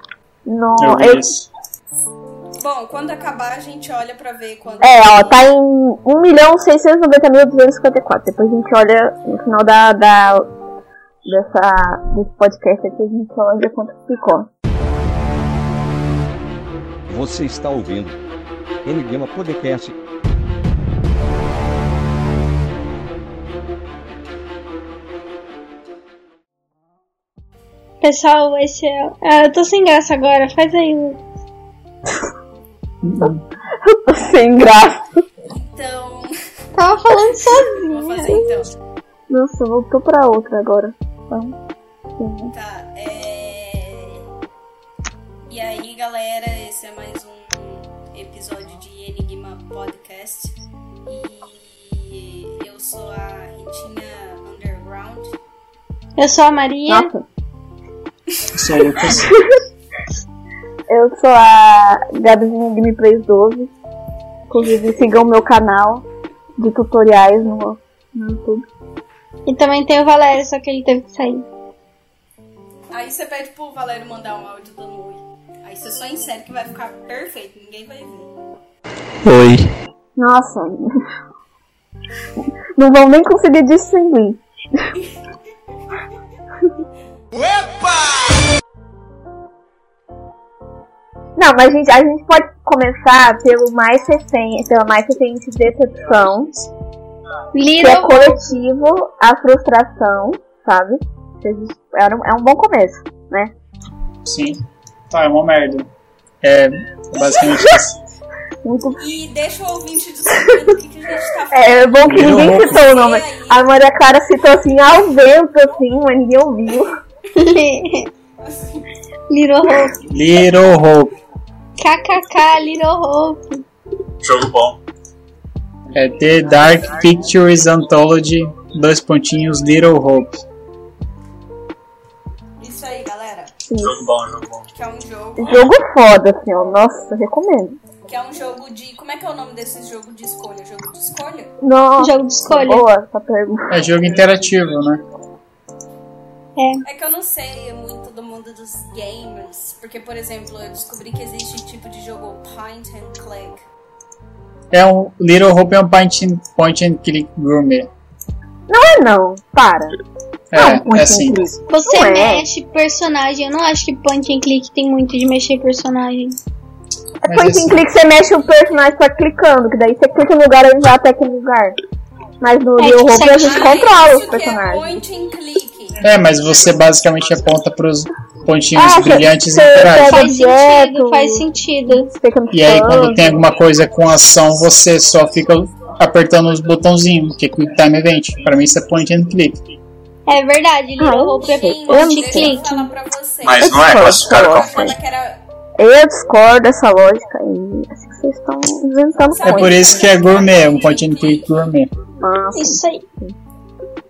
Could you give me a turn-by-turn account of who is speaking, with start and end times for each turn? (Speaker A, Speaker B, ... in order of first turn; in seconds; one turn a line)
Speaker A: 0.5-1.3
Speaker B: 0.8-1.4
Speaker C: 2.6-5.5
Speaker A: 4.8-10.5
Speaker A: 11.2-14.5
Speaker D: 17.1-18.2
Speaker D: 18.8-19.9
Speaker E: 28.0-31.2
Speaker B: 33.0-33.4
Speaker A: 33.8-35.1
Speaker C: 35.5-36.3
Speaker E: 36.8-38.4
Speaker C: 37.4-38.7
Speaker A: 39.3-41.5
Speaker A: 42.2-42.5
Speaker C: 42.5-44.2
Speaker C: 45.5-50.5
Speaker C: 51.0-55.3
Speaker E: 56.2-57.1
Speaker A: 56.9-57.2
Speaker B: 58.5-59.3
Speaker A: 60.9-63.7
Speaker A: 64.5-66.0
Speaker A: 66.6-68.6
Speaker E: 69.5-71.4
Speaker C: 72.9-78.3
Speaker A: 80.2-81.1
Speaker A: 82.8-84.9
Speaker A: 91.4-96.7
Speaker E: 97.5-98.5
Speaker A: 97.8-103.5
Speaker B: 104.2-105.9
Speaker B: 106.4-108.0
Speaker A: 108.6-109.0
Speaker C: 109.0-113.6
Speaker A: 111.5-117.0
Speaker B: 112.0-112.8
Speaker E: 117.3-118.1
Speaker C: 118.4-118.8
Speaker E: 119.3-120.0
Speaker B: 120.0-121.1
Speaker E: 121.8-123.4
Speaker F: 124.2-124.8
Speaker B: 125.9-130.4
Speaker C: 132.6-133.5
Speaker A: 133.7-134.0
Speaker F: 133.8-134.7
Speaker C: 134.7-135.8
Speaker A: 135.4-137.8
Speaker C: 138.1-141.5
Speaker A: 141.6-143.9
Speaker E: 142.0-142.8
Speaker B: 143.7-145.0
Speaker E: 146.6-146.8
Speaker C: 146.8-153.6
Speaker B: 154.7-157.9
Speaker A: 158.7-159.9
Speaker B: 160.5-161.5
Speaker A: 160.5-162.4
Speaker E: 161.7-166.3
Speaker B: 167.2-167.8
Speaker A: 167.2-171.8
Speaker C: 168.1-168.8
Speaker A: 172.4-175.0
Speaker E: 172.8-173.8
Speaker C: 173.4-176.0
Speaker B: 176.0-180.3
Speaker A: 178.7-183.4
Speaker E: 179.5-182.1
Speaker B: 182.5-189.6
Speaker E: 190.3-192.9
Speaker A: 191.0-192.7
Speaker C: 191.3-195.4
Speaker F: 193.4-194.9
Speaker A: 193.6-194.9
Speaker A: 195.8-200.0
Speaker C: 199.3-201.5
Speaker B: 199.4-201.9
Speaker A: 202.2-203.3
Speaker E: 202.5-203.0